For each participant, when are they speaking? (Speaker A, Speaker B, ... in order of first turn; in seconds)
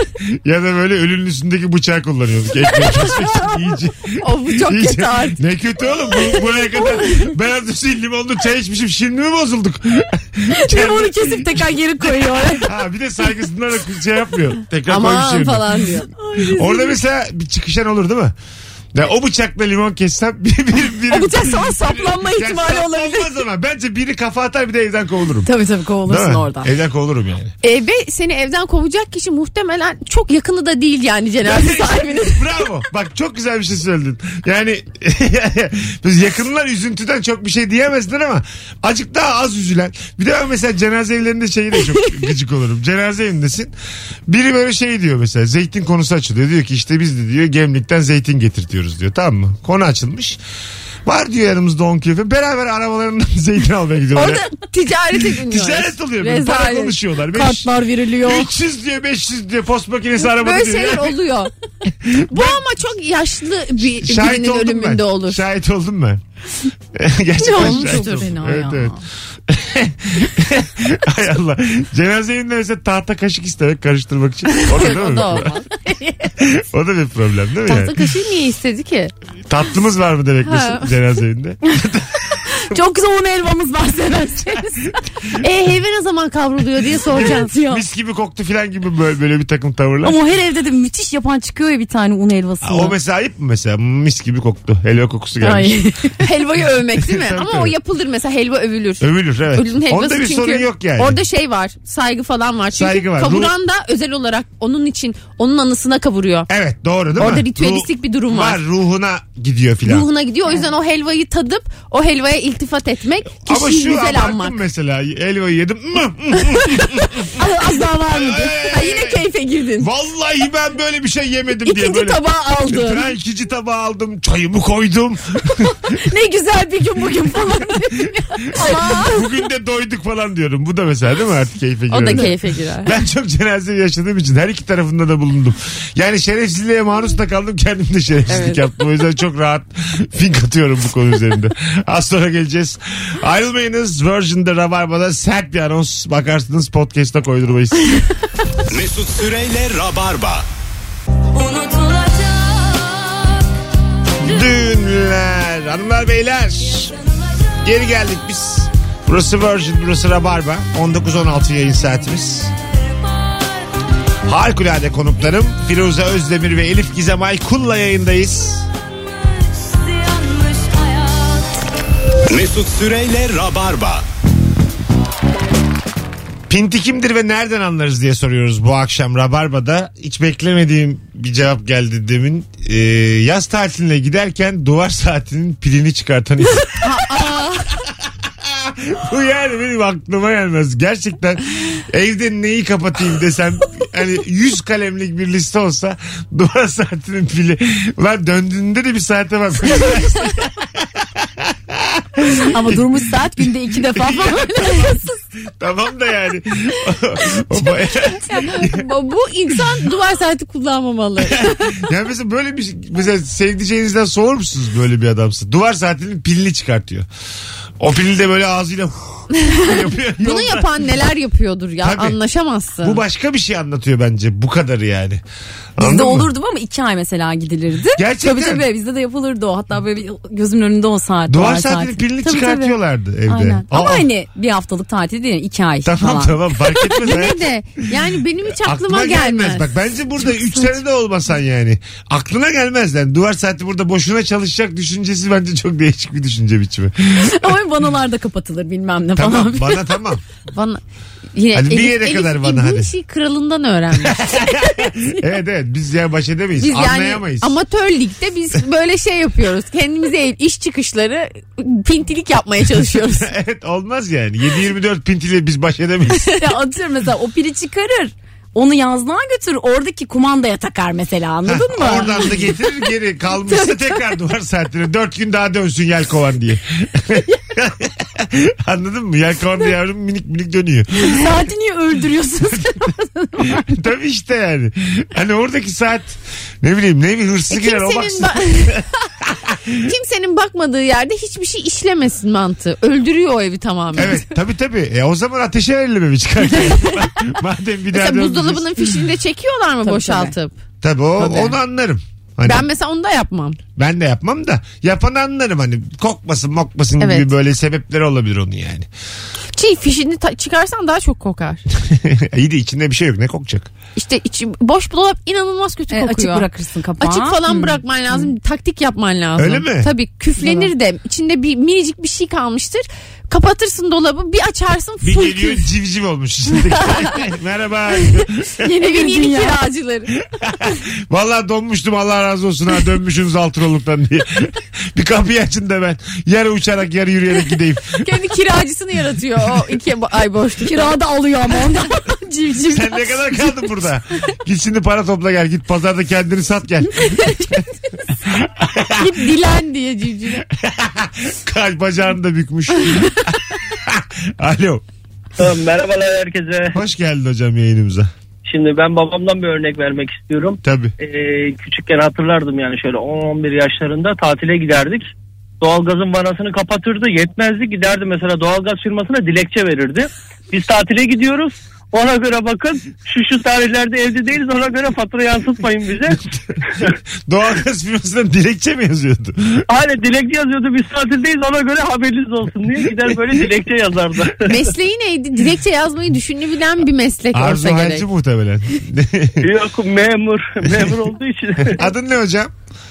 Speaker A: 0.2-11.8, 12.4-15.8, 16.4-18.4, 18.9-25.5, 26.1-27.5, 31.4-43.7, 44.3-50.4, 51.0-54.5, 55.2-61.2, 62.0-62.6, 63.8-66.2, 66.9-69.0, 69.5-75.5, 76.4-77.9, 79.5-82.2, 87.1-90.2, 92.6-95.8, 97.0-97.8, 99.0-101.2, 102.7-103.5, 106.5-110.1, 113.4-117.3, 118.1-119.2, 119.8-122.2, 122.7-125.9, 128.5-147.9, 154.2-156.9, 157.6-162.5, 164.2-168.7, 176.5-187.2, 188.3-202.9, 203.9-204.8, 205.6-208.8, 211.2-217.1, 217.8-220.9, 221.8-222.2, 222.8-225.2, 225.8-226.3, 227.9-228.7, 231.3-234.1, 235.8-237.4, 238.6-247.5, 249.2-250.2, 251.5-252.9, 253.9-257.5, 263.1-266.3, 271.4-281.2, 283.4-289.8, 294.0-298.9, 300.8-302.7, 303.8-308.9, 311.8-313.7, 319.4-319.9, 325.0-328.6, 330.3-338.1, 342.7-347.2, 348.6-349.1, 350.5-354.8, 356.7-358.1, 360.6-360.9, 377.3-379.7, 387.3-389.5, 391.7-392.5
Speaker B: 4.2-5.4, 14.9-16.1, 21.1-23.1, 27.6-32.5, 54.1-57.0, 60.2-61.5, 62.3-65.4, 67.4-68.3, 74.5-75.9, 77.7-79.1, 80.4-80.9, 85.4-87.5, 96.2-106.5, 107.2-108.6, 109.8-114.6, 118.6-119.9, 121.6-123.0, 128.5-129.2, 131.9-133.0, 138.3-138.6, 186.8-187.8, 208.3-211.9, 219.3-223.0, 236.7-239.7, 250.5-250.8, 251.3-254.3, 256.6-263.3, 266.1-266.5, 287.5-288.9, 289.8-294.2, 296.7-297.0, 297.9-300.6, 301.2-301.6, 302.5-303.6, 307.0-307.3, 309.6-311.6, 314.0-316.5, 317.0-325.7, 326.6-327.2, 328.0-330.1, 338.0-341.0, 347.1-347.5, 348.9-350.4, 384.4-388.1
Speaker C: 10.5-12.7, 16.2-17.0, 21.3-23.2, 25.4-26.7, 57.3-58.5, 67.4-69.0, 82.6-85.0, 87.2-87.8, 90.0-93.0, 95.4-96.3, 117.4-118.6, 125.9-129.1, 151.5-152.1, 170.3-171.1, 202.5-205.2, 225.8-232.8, 233.3-236.3, 247.2-249.9, 266.4-272.5, 281.0-283.6, 299.8-300.4, 315.9-318.3, 320.4-320.7, 328.8-329.6, 340.6-343.1
Speaker D: 148.7-150.5, 172.3-174.1
Speaker E: 355.4-356.8, 358.4-376.2, 379.7-384.7, 389.4-391.9